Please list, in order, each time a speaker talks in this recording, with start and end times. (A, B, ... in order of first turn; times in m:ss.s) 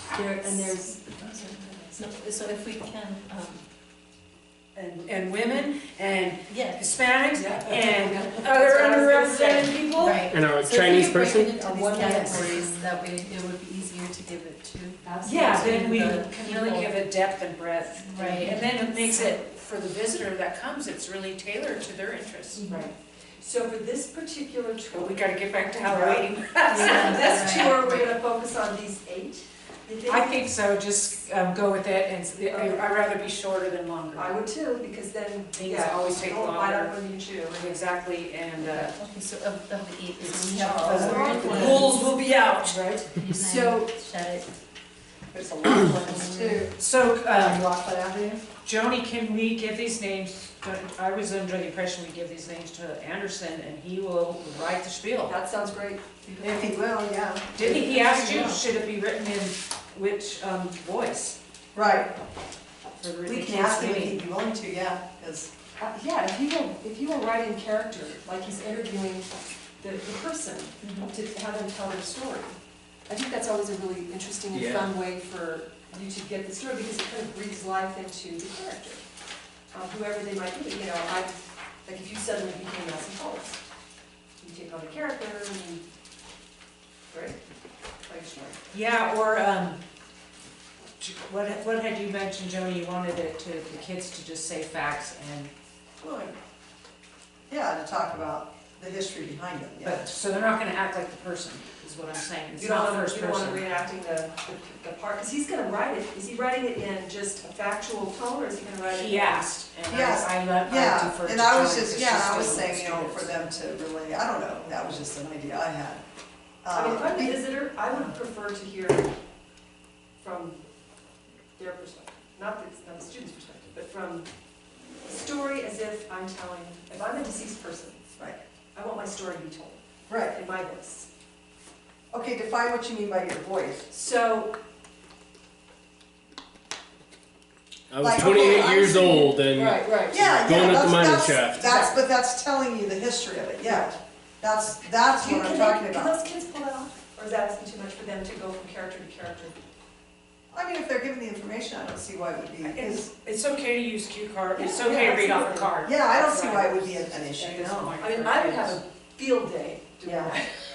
0:00.1-0:02.0 A
0:00.4-0:00.8 B
0:01.9-0:03.6 B
0:04.7-0:10.2 C
0:06.5-0:06.8 B
0:07.3-0:10.2 A
0:10.0-0:17.0 B
0:10.3-0:11.7 D
0:11.7-0:12.6 A
0:15.0-0:16.2 A
0:15.2-0:22.7 C
0:18.0-0:19.3 B
0:22.6-0:22.9 B
0:22.6-0:30.4 A
0:24.9-0:27.9 C
0:26.6-0:28.1 B
0:30.1-0:34.4 C
0:32.5-0:32.8 A
0:34.1-0:37.8 A
0:35.5-0:39.0 C
0:38.7-0:42.1 B
0:40.2-0:43.2 C
0:40.6-0:41.8 E
0:40.8-0:42.9 A
0:43.1-0:44.5 B
0:45.3-0:46.7 E
0:45.7-0:46.3 A
0:46.1-0:46.6 B
0:46.7-0:55.4 C
0:55.2-0:56.8 A
0:56.4-0:57.9 E
0:57.5-1:01.4 C
0:57.6-0:58.6 A
1:01.7-1:02.2 E
1:03.0-1:04.2 C
1:03.2-1:05.5 E
1:05.8-1:12.6 A
1:13.1-1:19.0 A
1:14.5-1:14.9 D
1:19.7-1:23.6 A
1:24.4-1:25.8 A
1:27.1-1:27.4 A
1:28.0-1:28.6 A
1:28.7-1:29.8 C
1:31.0-1:35.5 C
1:36.0-1:36.4 E
1:37.5-1:40.1 E
1:39.8-1:43.8 C
1:42.5-1:49.4 A
1:48.8-1:53.3 C
1:49.9-1:56.0 E
1:56.6-1:58.1 E
1:56.7-1:59.1 A
2:00.2-2:00.6 A
2:01.6-2:04.3 A
2:05.0-2:08.0 A
2:08.7-2:11.1 A
2:10.1-2:10.4 E
2:12.1-2:13.9 E
2:13.9-2:14.5 A
2:17.9-2:21.8 D
2:18.0-2:19.4 E
2:19.0-2:20.2 A
2:20.1-2:26.2 E
2:21.6-2:22.0 A
2:23.6-2:24.0 A
2:25.2-2:29.6 A
2:30.5-2:33.0 E
2:32.6-2:38.8 C
2:34.5-2:35.7 A
2:35.8-2:38.0 E
2:38.0-2:40.5 A
2:40.0-2:40.3 E